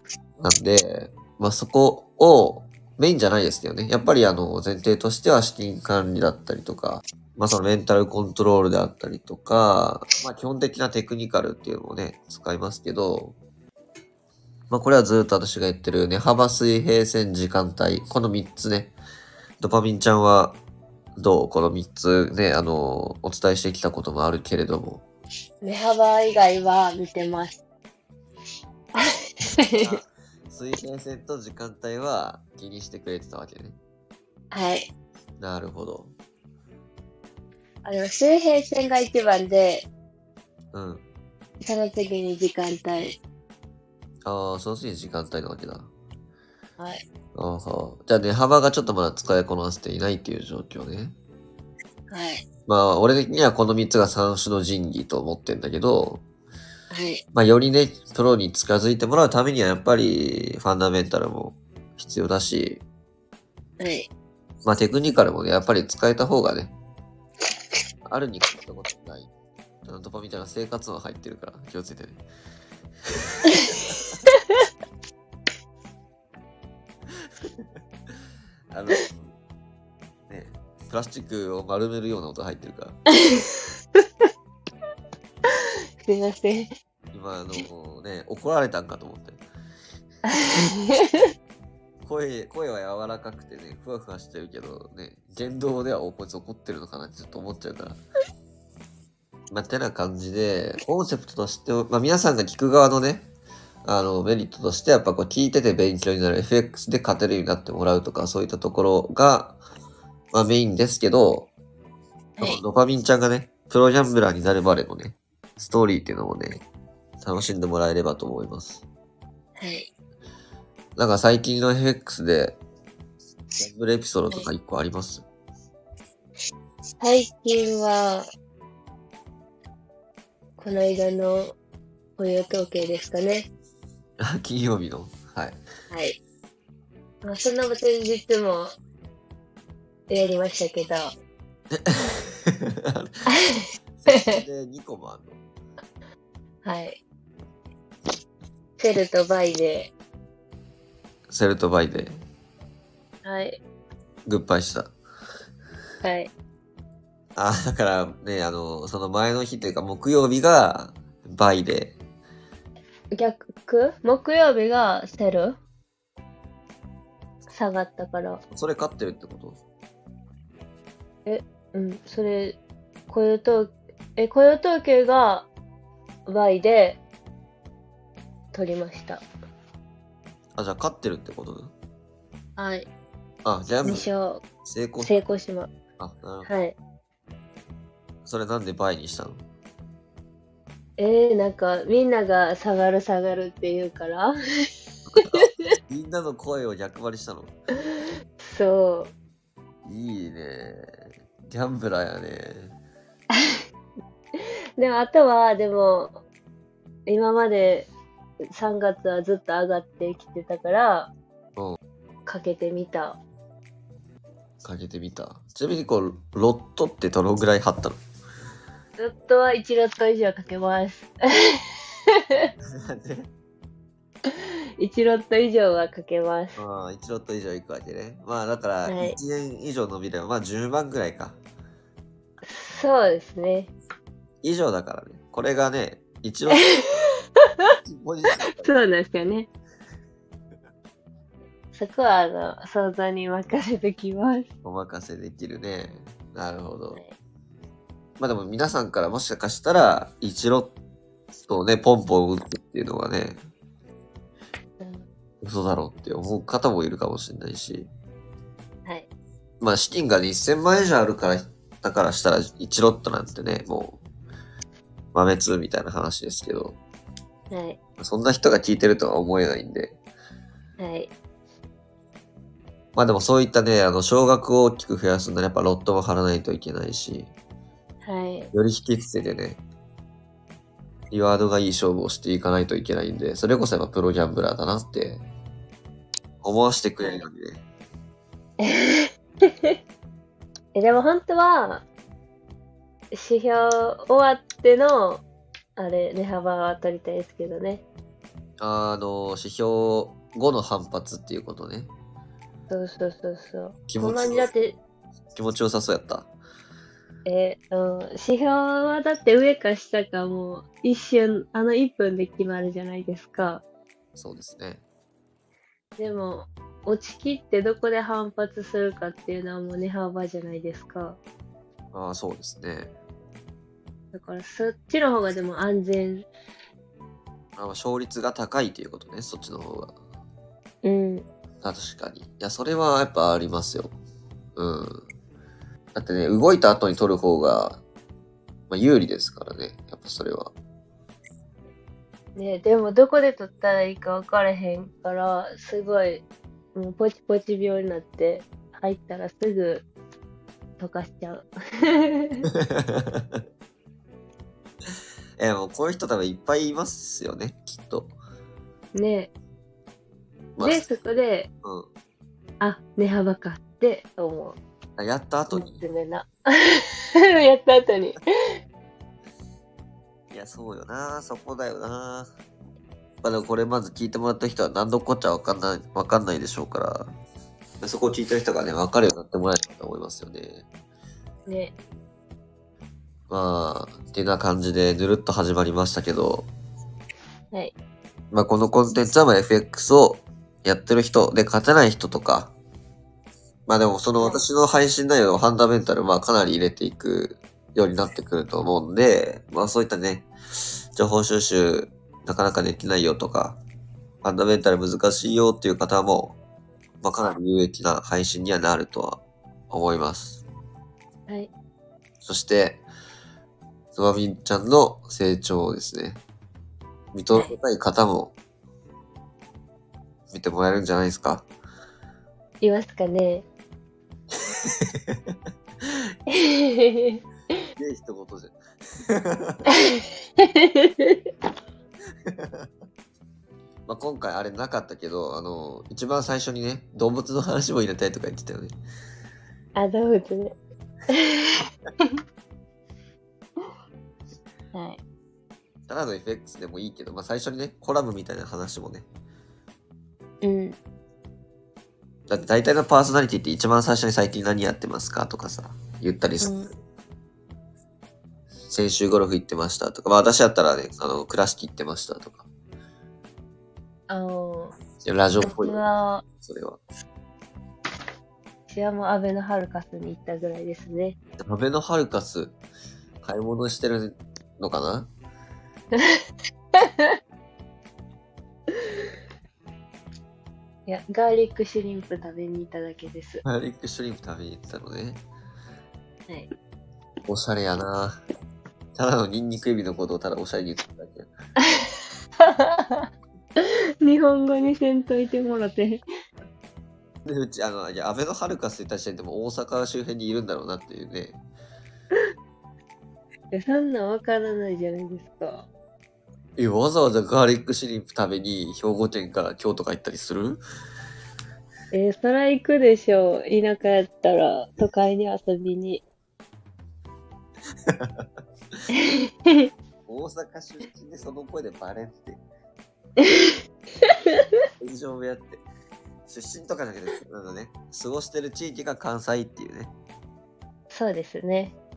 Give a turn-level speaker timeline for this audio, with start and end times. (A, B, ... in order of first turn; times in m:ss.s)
0:00.4-0:13.4 A
0:14.7-0:18.9 A
0:19.6-0:20.6 A
0:21.2-0:25.0 A
0:25.6-0:27.6 B
0:28.9-0:30.0 B
0:29.8-0:33.8 A
0:34.5-0:34.9 B
0:35.4-0:36.1 A
0:37.8-0:39.8 B
0:40.7-0:41.0 A
0:41.6-0:43.2 B
0:44.2-0:45.9 A
0:47.3-0:51.1 A
0:52.1-0:52.4 B
0:52.7-0:56.2 A
0:56.9-0:57.2 B
0:57.3-1:02.8 A
1:03.8-1:04.1 B
1:04.6-1:06.7 A
1:08.1-1:09.3 A
1:09.8-1:12.2 A
1:13.4-1:14.1 A
1:17.4-1:17.7 A
1:18.7-1:19.3 A
1:20.3-1:23.0 A
1:23.2-1:24.0 B
1:26.0-1:26.7 B
1:27.1-1:29.4 A
1:30.3-1:31.2 B
1:32.0-1:38.0 A
1:39.5-1:43.3 A
1:43.8-1:49.6 A
1:50.3-1:51.5 A
1:52.4-1:56.6 A
1:57.2-1:58.8 A
1:59.6-1:59.9 B
2:01.0-2:02.6 A
2:03.6-2:05.2 A
2:07.0-2:08.3 B
2:10.6-2:11.5 B
2:12.2-2:13.5 B
2:14.2-2:15.6 A
2:15.9-2:16.2 B
2:17.2-2:18.7 B
2:20.1-2:21.1 B
2:21.7-2:23.1 A
2:23.3-2:24.4 B
2:24.0-2:25.4 A
2:26.6-2:27.0 B
2:28.8-2:29.9 B
2:31.3-2:32.2 A
2:33.2-2:33.6 B
2:34.2-2:34.9 A
2:36.0-2:36.3 B
2:37.4-2:42.0 A
2:43.1-2:45.6 B
2:47.5-2:48.4 B
2:48.5-2:49.6 A
2:51.2-2:52.6 B
2:53.1-2:55.5 B
2:56.2-2:57.0 B
2:58.5-2:59.2 B
3:00.6-3:01.7 A
3:02.6-3:02.9 B
3:03.4-3:04.1 A
3:03.8-3:04.4 B
3:04.6-3:05.1 A
3:05.0-3:05.7 B
3:06.0-3:06.5 A
3:06.4-3:06.8 B
3:08.2-3:09.4 A
3:11.0-3:14.3 B
3:15.1-3:17.5 A
3:18.4-3:19.1 B
3:19.8-3:22.8 A
3:24.8-3:26.2 B
3:27.1-3:27.9 B
3:28.5-3:31.1 B
3:32.2-3:33.2 B
3:34.6-3:38.0 A
3:39.0-3:41.5 B
3:42.8-3:43.3 A
3:44.3-3:46.6 B
3:46.6-3:51.4 A
3:48.9-3:49.2 B
3:52.4-3:53.7 B
3:54.4-3:56.6 A
3:57.8-3:58.8 A
3:58.6-3:59.5 B
4:01.7-4:04.5 B
4:04.6-4:07.0 A
4:08.2-4:10.7 A
4:11.4-4:13.4 A
4:14.8-4:15.0 B
4:15.4-4:17.9 A
4:19.6-4:24.0 A
4:25.1-4:26.8 A
4:27.5-4:27.8 B
4:28.0-4:30.0 A
4:30.8-4:31.1 B
4:32.9-4:37.3 A
4:38.0-4:38.5 B
4:38.5-4:39.6 A
4:41.1-4:45.2 A
4:46.4-4:47.6 A
4:48.6-4:49.1 B
4:50.7-4:51.8 B
4:53.1-4:55.2 B
4:55.8-4:57.8 B
4:58.6-5:01.9 A
5:02.7-5:04.8 B
5:03.9-5:04.5 A
5:05.3-5:06.3 A
5:07.2-5:13.6 B
5:14.2-5:14.8 A
5:16.0-5:21.2 B
5:21.9-5:22.9 A
5:24.1-5:26.3 B
5:27.6-5:30.0 A
5:30.8-5:31.2 B
5:31.6-5:34.0 A
5:34.6-5:35.1 A
5:35.9-5:37.8 A
5:38.7-5:40.5 A
5:42.4-5:46.2 B
5:46.8-5:49.9 B
5:50.8-5:52.5 B
5:52.7-5:53.4 A
5:55.4-5:58.2 A
5:58.9-5:59.3 B
6:00.6-6:00.9 A
6:00.6-6:01.5 B
6:02.6-6:04.6 B
6:05.0-6:05.8 A
6:05.5-6:08.2 B
6:10.3-6:12.3 A
6:13.2-6:17.1 A
6:17.8-6:20.6 A
6:21.5-6:21.7 B
6:23.3-6:26.5 A
6:28.3-6:32.5 A
6:33.7-6:40.3 A
6:34.2-6:34.4 B
6:40.9-6:43.6 A
6:44.2-6:46.4 A
6:47.0-6:50.4 A
6:52.2-6:52.8 A
6:53.9-6:56.2 A
6:57.1-6:58.4 A
7:00.3-7:01.5 A
7:02.6-7:03.5 B
7:04.4-7:05.4 A
7:06.3-7:07.2 B
7:07.8-7:08.6 A
7:09.1-7:09.7 A
7:09.8-7:11.2 B
7:12.2-7:12.7 A
7:13.9-7:18.8 A
7:19.8-7:20.6 B
7:21.1-7:22.1 B
7:24.7-7:25.0 B
7:25.9-7:29.0 A
7:30.4-7:30.8 B
7:32.3-7:36.7 A
7:36.4-7:36.7 B
7:38.7-7:42.5 A
7:44.1-7:44.8 B
7:45.0-7:45.8 A
7:45.4-7:46.2 B
7:46.4-7:46.8 A
7:48.7-7:51.2 B
7:51.4-7:52.6 A
7:53.2-7:55.1 A
7:56.8-7:57.1 B
8:00.9-8:03.4 B
8:03.4-8:05.2 A
8:07.3-8:08.2 A
8:08.9-8:11.3 A
8:12.4-8:13.0 B
8:14.0-8:16.0 B
8:17.2-8:21.4 A
8:23.5-8:25.7 B
8:26.6-8:30.6 A
8:31.9-8:36.0 B
8:37.9-8:38.3 A
8:38.9-8:39.7 B
8:40.1-8:42.4 A
8:43.2-8:43.5 B
8:44.8-8:45.6 A
8:46.2-8:49.9 A
8:50.9-8:51.8 B